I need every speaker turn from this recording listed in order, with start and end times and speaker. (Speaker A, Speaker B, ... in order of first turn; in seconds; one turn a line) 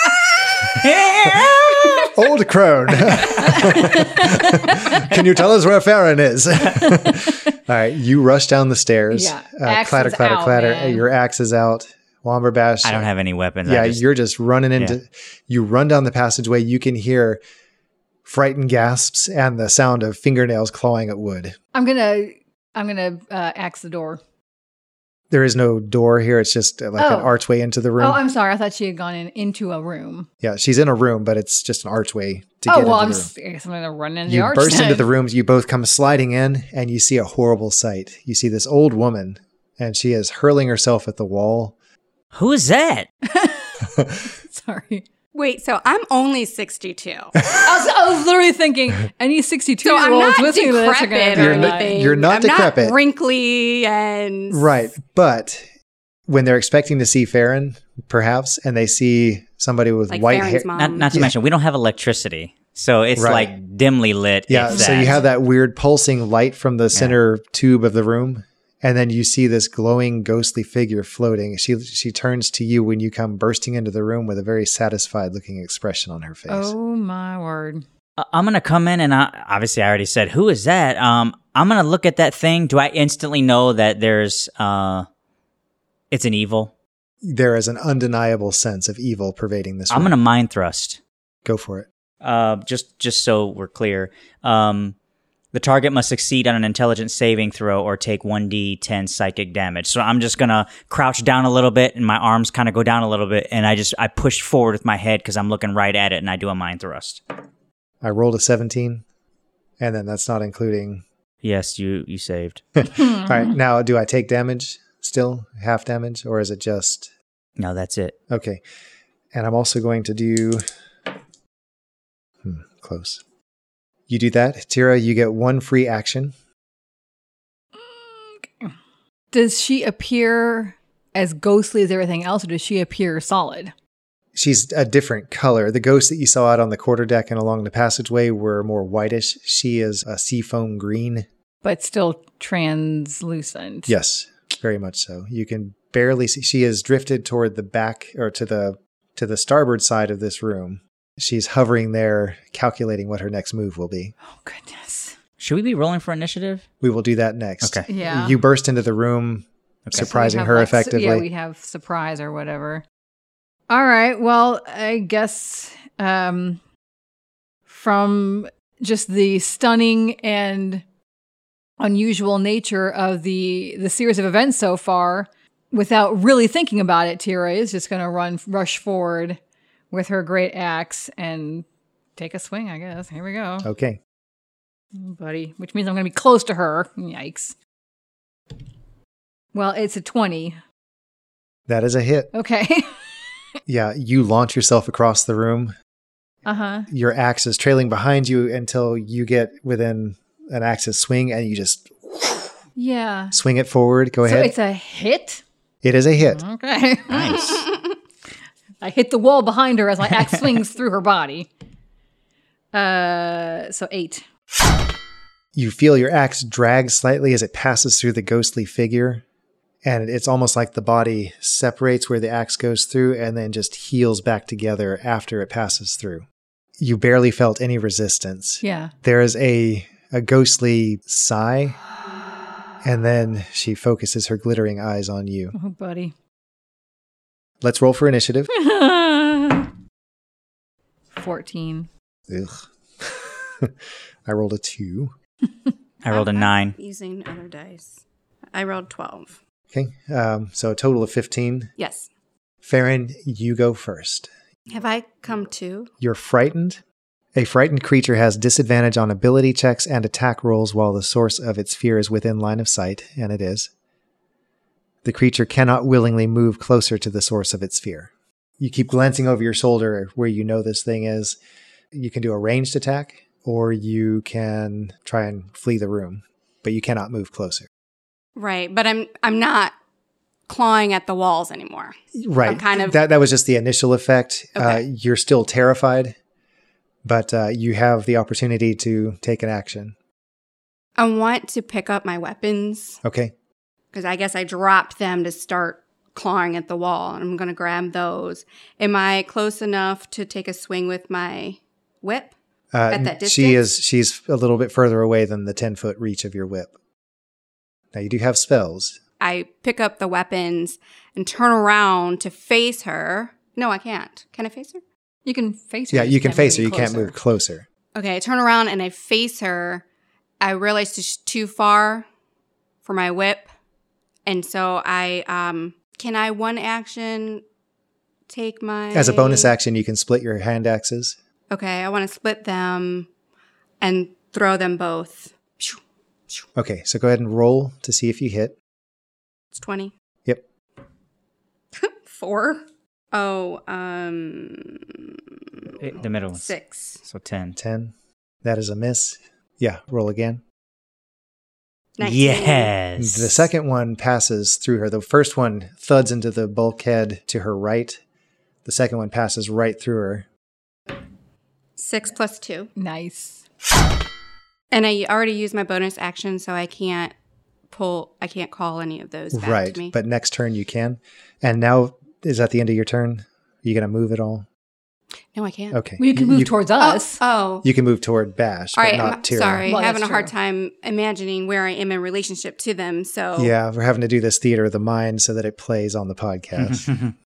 Speaker A: 0.7-2.1
Speaker B: 2.1-13.1
Speaker A: 3.1-3.6
Speaker C: 3.5-5.0
Speaker C: 9.1-11.1
Speaker A: 12.8-14.0
Speaker B: 13.7-17.4
Speaker B: 18.2-21.6
Speaker C: 21.7-24.2
Speaker B: 25.3-28.2
Speaker C: 27.0-27.4
Speaker C: 28.0-30.3
Speaker B: 30.4-33.3
Speaker C: 32.7-35.1
Speaker B: 34.3-41.8
Speaker A: 42.3-43.1
Speaker C: 43.3-45.0
Speaker D: 45.3-47.5
Speaker C: 47.6-51.9
Speaker D: 49.8-54.7
Speaker B: 51.3-53.0
Speaker B: 54.5-55.6
Speaker B: 56.3-61.4
Speaker D: 60.1-61.1
Speaker A: 60.8-65.2
Speaker B: 63.2-63.6
Speaker B: 64.5-76.7
Speaker A: 66.9-67.2
Speaker C: 76.5-77.8
Speaker A: 78.2-85.1
Speaker A: 86.1-86.7
Speaker B: 87.2-90.1
Speaker A: 89.9-91.0
Speaker B: 91.5-91.9
Speaker A: 92.2-95.0
Speaker A: 95.5-107.2
Speaker B: 108.0-109.0
Speaker B: 109.8-111.0
Speaker A: 111.4-112.6
Speaker B: 112.8-117.1
Speaker C: 113.0-113.4
Speaker A: 117.6-118.2
Speaker B: 118.3-118.6
Speaker B: 119.3-120.6
Speaker B: 122.4-123.2
Speaker B: 124.1-126.3
Speaker C: 127.8-128.7
Speaker C: 129.3-133.7
Speaker B: 134.3-141.3
Speaker C: 141.6-143.9
Speaker B: 143.9-154.1
Speaker C: 154.3-155.2
Speaker A: 155.4-156.7
Speaker B: 156.8-161.3
Speaker C: 157.9-158.4
Speaker A: 159.9-160.1
Speaker C: 159.9-162.8
Speaker C: 163.7-166.6
Speaker C: 167.7-170.8
Speaker C: 171.8-179.4
Speaker C: 179.9-183.7
Speaker B: 183.6-184.0
Speaker C: 184.9-187.6
Speaker C: 189.5-190.6
Speaker B: 191.7-192.3
Speaker C: 192.3-193.1
Speaker B: 193.7-195.8
Speaker C: 196.4-196.9
Speaker B: 196.9-202.5
Speaker C: 202.8-203.3
Speaker B: 203.3-204.6
Speaker C: 204.2-205.4
Speaker B: 205.8-206.4
Speaker C: 206.2-207.4
Speaker A: 207.1-207.7
Speaker D: 207.3-207.8
Speaker C: 208.8-211.5
Speaker C: 212.7-214.2
Speaker B: 215.6-219.2
Speaker B: 219.8-226.3
Speaker B: 226.8-231.8
Speaker C: 228.6-228.9
Speaker B: 232.8-235.6
Speaker C: 235.5-236.1
Speaker B: 237.6-238.5
Speaker C: 238.5-239.7
Speaker C: 241.1-241.9
Speaker B: 242.3-245.1
Speaker A: 246.0-246.8
Speaker D: 246.1-248.0
Speaker D: 248.5-249.4
Speaker B: 249.7-251.7
Speaker D: 251.8-252.1
Speaker B: 252.6-254.3
Speaker D: 254.7-255.9
Speaker B: 256.0-256.8
Speaker B: 257.4-263.7
Speaker B: 265.0-271.4
Speaker B: 271.9-277.7
Speaker D: 278.4-279.7
Speaker D: 280.5-283.0
Speaker B: 282.1-286.2
Speaker D: 284.6-284.8
Speaker B: 287.0-290.0
Speaker D: 291.0-293.0
Speaker B: 293.0-293.3
Speaker D: 293.9-302.4
Speaker B: 302.7-306.7
Speaker D: 302.9-303.6
Speaker B: 307.9-309.0
Speaker D: 309.2-314.8
Speaker C: 315.3-317.2
Speaker B: 315.9-317.7
Speaker D: 317.9-319.9
Speaker D: 320.4-322.1
Speaker D: 322.9-323.5
Speaker D: 324.3-327.4
Speaker D: 328.3-329.5
Speaker B: 328.9-331.2
Speaker D: 331.5-333.1
Speaker D: 333.8-336.5
Speaker B: 336.6-338.6
Speaker D: 339.5-339.9
Speaker D: 341.7-347.0
Speaker A: 345.8-347.6
Speaker B: 347.6-350.4
Speaker D: 352.0-352.7
Speaker A: 352.0-353.5
Speaker B: 353.0-358.0
Speaker B: 358.6-360.3
Speaker D: 361.8-362.7
Speaker C: 362.8-363.4
Speaker D: 364.7-367.1
Speaker D: 367.7-369.9
Speaker B: 369.3-374.5
Speaker D: 375.3-375.8
Speaker B: 375.7-376.5
Speaker C: 376.0-377.2
Speaker D: 376.8-377.7
Speaker B: 377.6-379.7
Speaker D: 378.8-383.5
Speaker C: 379.7-380.3
Speaker B: 383.4-386.9
Speaker A: 386.6-387.1